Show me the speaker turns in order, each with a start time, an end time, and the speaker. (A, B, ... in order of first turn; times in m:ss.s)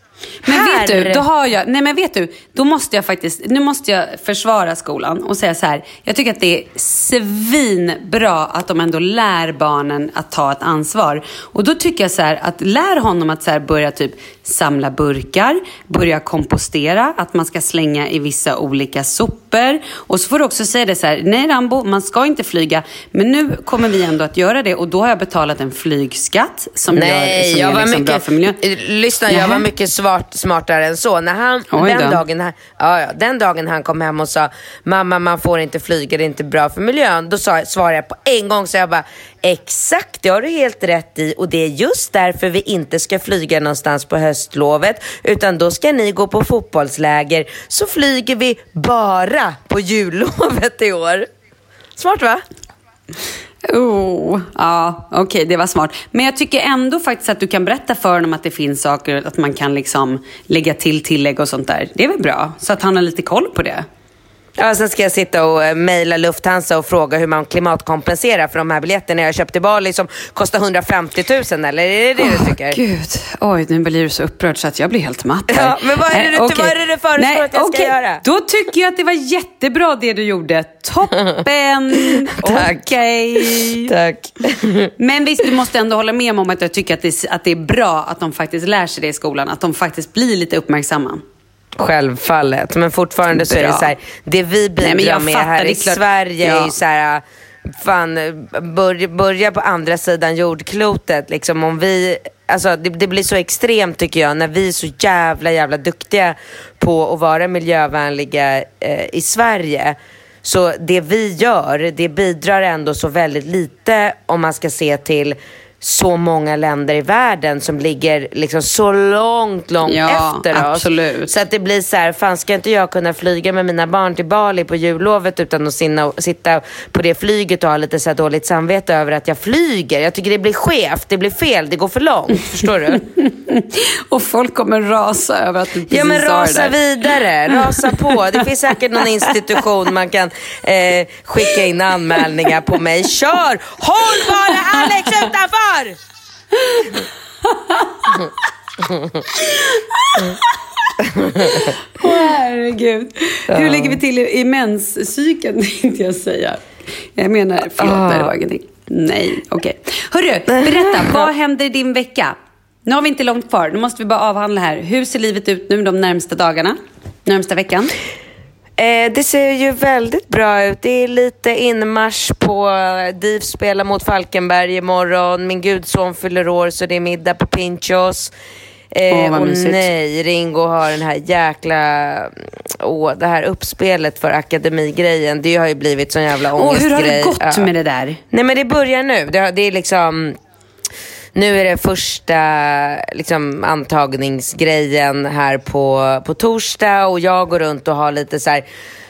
0:00.4-0:01.2 A
0:00.4-0:28.6 B
0:26.9-0:51.3 A
0:29.3-0:29.6 B
0:31.7-0:32.2 B
0:52.0-0:52.4 A
0:53.6-1:03.9 B
1:04.6-1:12.8 A
1:12.2-1:23.9 B
1:15.5-1:18.2 A
1:22.4-1:22.9 A
1:23.5-1:24.9 A
1:25.0-1:31.2 B
1:31.8-2:13.0 A
1:33.3-1:33.9 B
1:34.8-1:36.7 B
1:59.8-2:01.3 B
2:13.0-2:18.4 B
2:15.9-2:26.0 A
2:24.1-2:25.3 B
2:26.5-2:28.3 B
2:29.3-2:30.6 B
2:31.1-2:31.7 A
2:31.4-2:47.9 B
2:33.5-2:34.0 A
2:37.8-2:38.3 A
2:40.6-2:41.2 A
2:48.8-2:58.3 A
2:58.9-3:07.7 A
2:59.1-2:59.8 B
3:06.5-3:08.2 B
3:08.3-3:10.4 A
3:11.3-3:18.6 A